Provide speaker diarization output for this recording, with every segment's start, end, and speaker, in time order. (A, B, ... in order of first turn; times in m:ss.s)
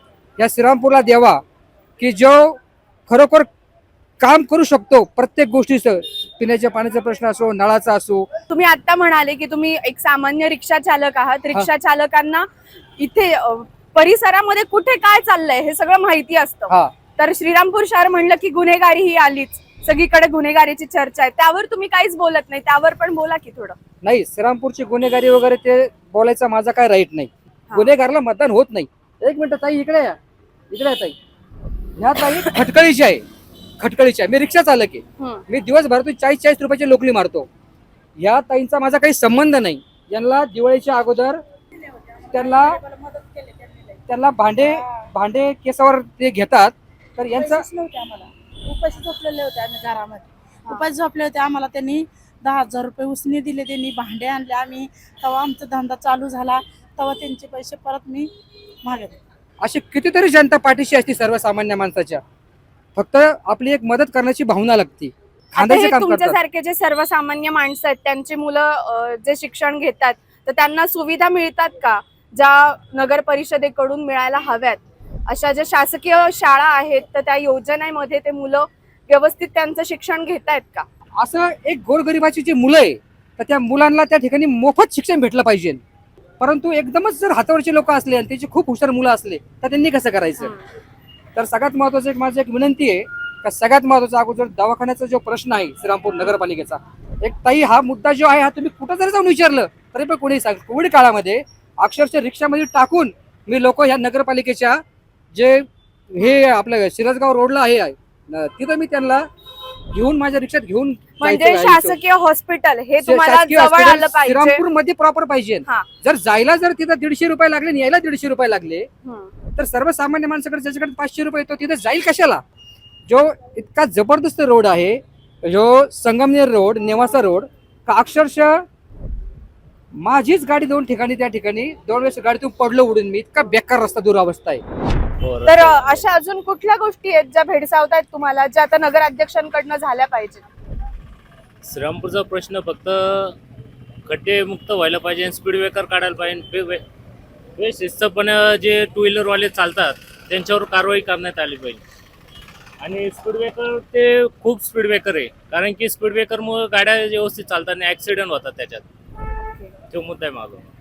0:00.4-0:01.4 A
0:02.0-0:03.5 A
0:04.2-0:08.3 A
0:08.5-0:23.8 B
0:24.0-0:30.2 A
0:30.7-0:31.1 A
0:32.0-0:33.2 A
0:33.8-0:37.5 A
0:35.2-0:35.4 B
0:38.2-0:41.4 A
0:42.3-0:42.8 A
0:42.3-0:43.2 C
0:44.1-0:47.6 A
0:44.6-0:45.0 C
0:47.3-0:58.3 C
0:58.8-0:59.2 C
0:59.6-1:02.2 A
1:03.0-1:06.4 A
1:05.6-1:20.9 B
1:21.2-1:25.8 A
1:26.4-1:30.5 A
1:30.4-1:30.6 B
1:31.4-1:44.8 A
1:45.3-1:49.3 A
1:49.9-1:52.0 A
1:51.2-1:54.6 B
1:53.0-1:58.9 A
1:59.0-1:59.3 B
1:59.6-2:02.4 A
2:03.1-2:08.6 A
2:10.0-2:14.6 A
2:15.2-2:16.0 D
2:15.4-2:20.4 B
2:21.6-2:23.4 D
2:24.1-2:26.8 D
2:27.6-2:31.8 D
2:32.8-2:38.8 D
2:39.9-2:40.7 D